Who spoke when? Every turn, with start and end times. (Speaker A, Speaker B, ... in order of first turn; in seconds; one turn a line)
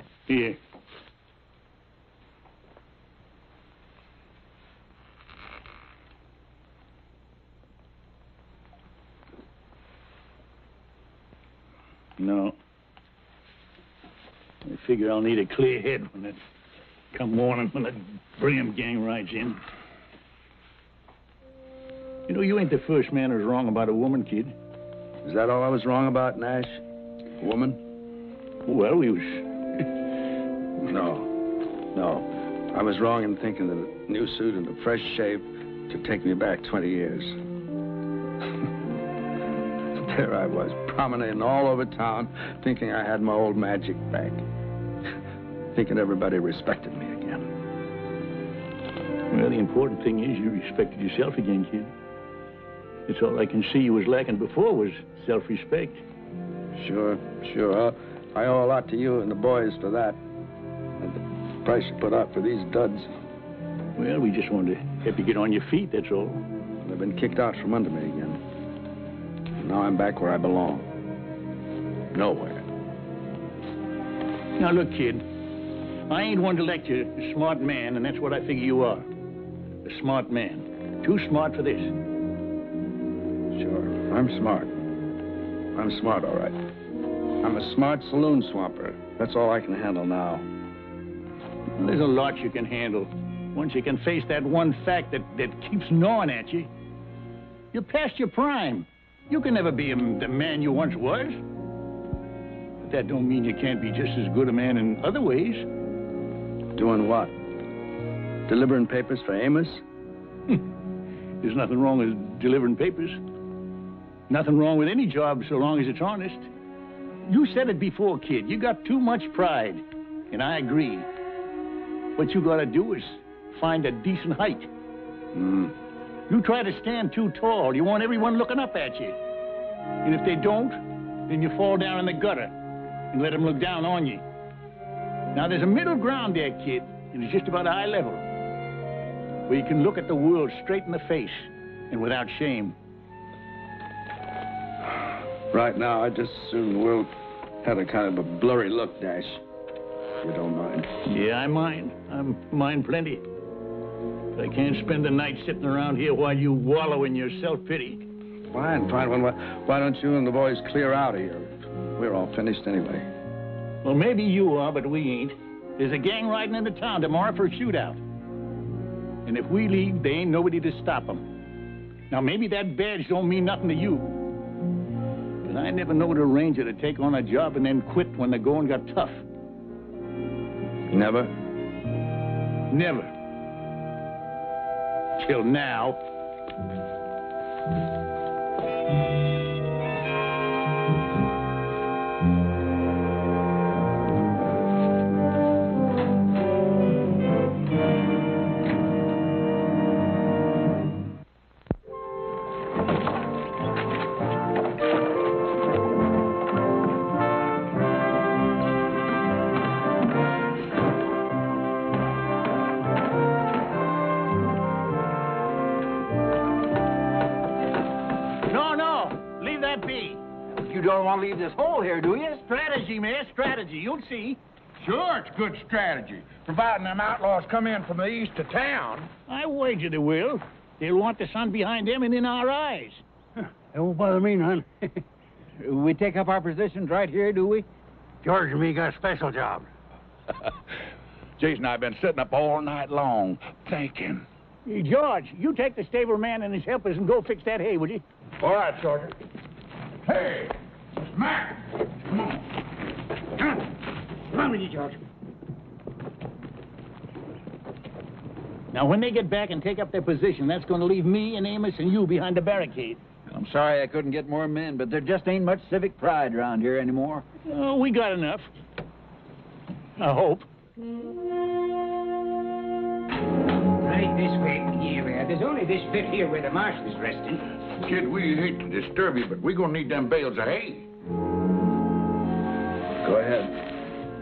Speaker A: 0.3-0.6
Speaker A: 12.2-12.6
Speaker A: 14.6-16.4
Speaker A: 17.1-19.6
Speaker A: 22.3-24.5
Speaker B: 25.2-26.8
Speaker B: 27.4-27.8
Speaker A: 28.6-29.4
Speaker B: 30.8-31.3
Speaker B: 31.9-37.3
Speaker B: 39.9-44.4
Speaker B: 45.7-47.4
Speaker A: 49.3-51.9
Speaker A: 53.1-56.0
Speaker B: 56.8-60.2
Speaker B: 61.0-63.1
Speaker A: 64.0-66.4
Speaker B: 66.8-68.4
Speaker B: 69.6-70.9
Speaker B: 72.1-72.6
Speaker A: 74.6-75.2
Speaker A: 76.1-79.1
Speaker A: 79.8-81.9
Speaker B: 83.5-84.7
Speaker B: 85.7-86.5
Speaker B: 87.4-90.4
Speaker A: 91.8-96.7
Speaker A: 97.7-101.4
Speaker A: 102.8-105.7
Speaker B: 106.7-107.3
Speaker B: 108.5-109.8
Speaker A: 111.4-113.2
Speaker A: 114.3-116.5
Speaker A: 117.2-121.1
Speaker A: 122.2-124.7
Speaker A: 126.3-129.2
Speaker A: 130.0-132.5
Speaker A: 133.1-134.2
Speaker A: 135.3-138.2
Speaker A: 139.5-142.8
Speaker B: 145.5-147.1
Speaker B: 147.6-149.4
Speaker B: 150.2-150.9
Speaker A: 151.0-153.2
Speaker A: 154.3-158.1
Speaker B: 158.5-163.1
Speaker A: 163.8-168.0
Speaker A: 169.2-171.3
Speaker A: 172.1-174.2
Speaker A: 175.4-179.2
Speaker B: 180.9-181.3
Speaker A: 182.7-183.1
Speaker A: 185.2-186.0
Speaker A: 218.5-220.2
Speaker C: 220.5-222.3
Speaker A: 222.2-224.4
Speaker D: 224.8-229.1
Speaker A: 229.3-233.0
Speaker E: 233.7-234.7
Speaker C: 235.6-237.6
Speaker E: 238.2-239.7
Speaker D: 241.4-244.2
Speaker A: 244.7-248.0
Speaker D: 250.1-250.5
Speaker D: 251.1-252.4
Speaker C: 254.5-254.9
Speaker A: 258.7-263.0
Speaker C: 263.3-267.2
Speaker A: 267.5-268.5
Speaker A: 270.0-270.4
Speaker F: 273.8-277.4
Speaker D: 277.8-280.9
Speaker B: 283.0-283.5